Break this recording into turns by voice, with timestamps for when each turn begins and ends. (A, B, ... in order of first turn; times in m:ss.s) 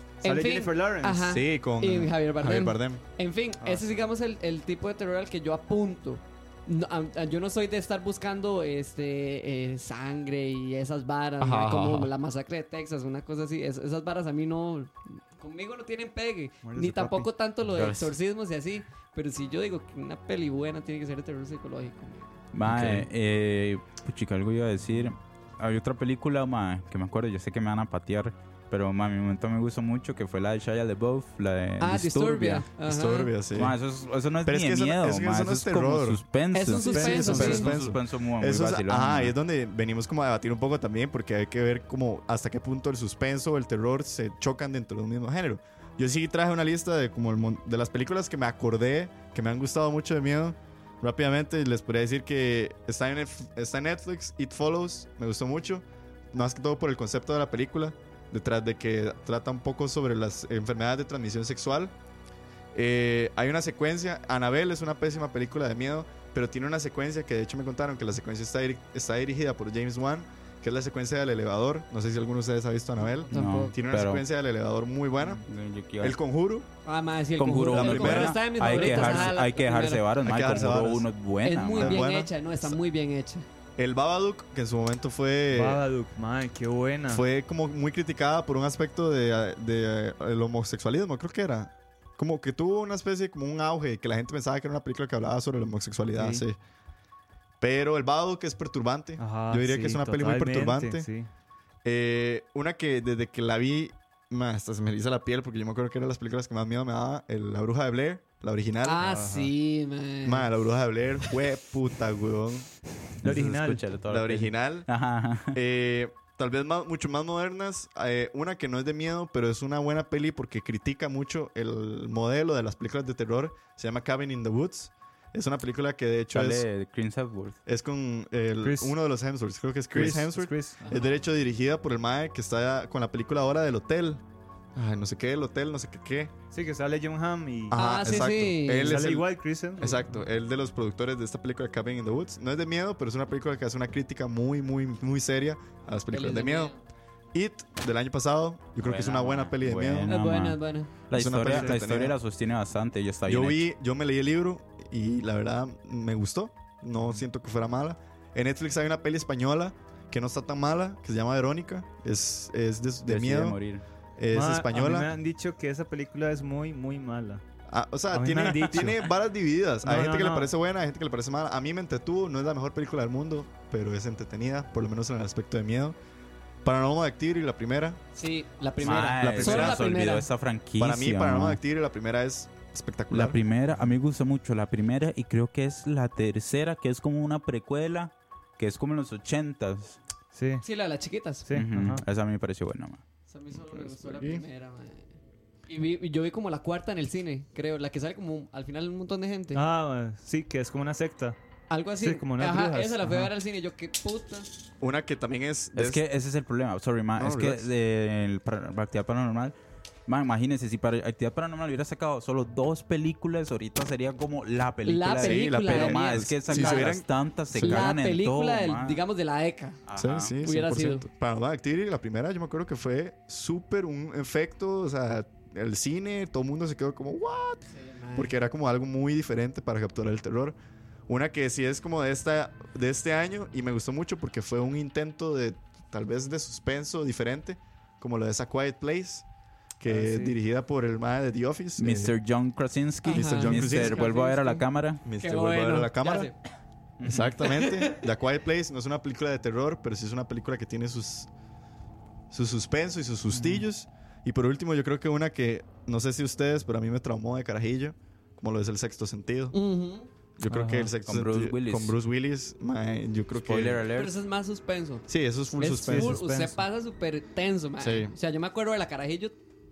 0:00.2-0:01.4 A
0:00.2-0:22.4 B
0:01.2-0:03.0 C
0:03.6-0:03.9 A
0:11.4-0:12.1 C
0:16.6-0:17.3 A
0:17.7-0:18.1 D
0:22.5-0:32.7 D
0:22.6-0:23.1 C
0:31.8-0:33.3 B
0:32.8-0:33.8 C
0:33.5-0:39.3 D
0:34.4-0:36.2 C
0:36.5-0:37.7 B
0:36.7-1:01.9 C
0:37.1-0:37.5 A
1:02.7-1:15.4 C
1:13.1-1:13.7 B
1:13.3-1:14.2 D
1:15.4-1:16.2 D
1:16.0-1:16.7 C
1:16.8-1:20.0 B
1:17.4-1:22.0 D
1:17.6-1:19.0 C
1:18.6-1:19.3 A
1:20.2-1:21.1 C
1:21.4-1:23.4 B
1:21.7-1:22.7 C
1:23.8-1:25.8 C
1:25.5-1:27.2 A
1:27.1-1:36.6 C
1:36.2-1:36.4 A
1:37.6-1:41.1 C
1:39.2-1:41.3 A
1:41.8-1:49.1 C
1:48.8-1:50.5 B
1:49.0-1:49.5 A
1:50.2-1:52.7 C
1:53.2-1:55.6 D
1:53.2-1:53.9 A
1:54.0-1:54.9 C
1:55.5-2:06.6 C
2:06.3-2:07.6 D
2:07.6-2:14.2 C
2:08.6-2:08.9 A
2:09.9-2:10.9 A
2:14.7-2:16.3 C
2:16.5-2:17.8 A
2:17.7-2:19.3 C
2:17.7-2:19.0 B
2:18.8-2:20.2 A
2:19.8-2:26.7 C
2:26.1-2:26.8 B
2:27.3-2:30.1 C
2:28.8-2:33.6 D
2:30.1-2:30.9 B
2:31.1-2:32.2 C
2:33.2-2:43.6 C
2:43.1-2:43.8 D
2:44.2-2:45.1 C
2:44.3-2:47.4 A
2:47.7-2:56.0 C
2:48.1-2:49.1 A
2:49.8-2:50.5 A
2:56.6-2:58.0 C
2:58.1-3:00.2 B
2:58.8-3:01.6 D
2:59.0-2:59.8 C
3:00.8-3:03.4 C
3:03.1-3:10.0 D
3:10.3-3:10.6 A
3:10.6-3:11.5 B
3:11.5-3:12.0 A
3:11.5-3:13.0 D
3:13.3-3:15.1 B
3:13.7-3:14.4 C
3:15.7-3:19.6 B
3:19.5-3:21.4 A
3:21.7-3:24.5 B
3:22.0-3:23.3 A
3:24.8-3:26.0 C
3:25.7-3:29.5 D
3:27.2-3:27.7 C
3:30.1-3:39.0 D
3:34.8-3:36.9 B
3:35.2-3:37.9 C
3:37.6-3:39.8 B
3:39.8-3:40.3 D
3:40.0-3:50.6 C
3:40.4-3:41.0 B
3:47.7-3:48.3 B
3:51.1-3:59.2 C
3:59.8-4:02.1 C
3:59.9-4:00.3 A
4:01.8-4:05.0 D
4:03.0-4:04.6 B
4:03.1-4:04.1 C
4:05.0-4:06.3 C
4:05.2-4:06.4 B
4:07.0-4:07.4 D
4:07.0-4:11.3 C
4:07.4-4:07.9 B
4:12.3-4:19.6 C
4:13.3-4:13.6 A
4:19.5-4:20.1 B
4:20.4-4:23.8 C
4:20.5-4:20.9 A
4:21.0-4:22.0 D
4:23.4-4:24.1 D
4:23.9-4:25.0 B
4:25.1-4:26.2 C
4:25.6-4:29.4 B
4:25.7-4:26.6 A
4:27.8-4:28.1 C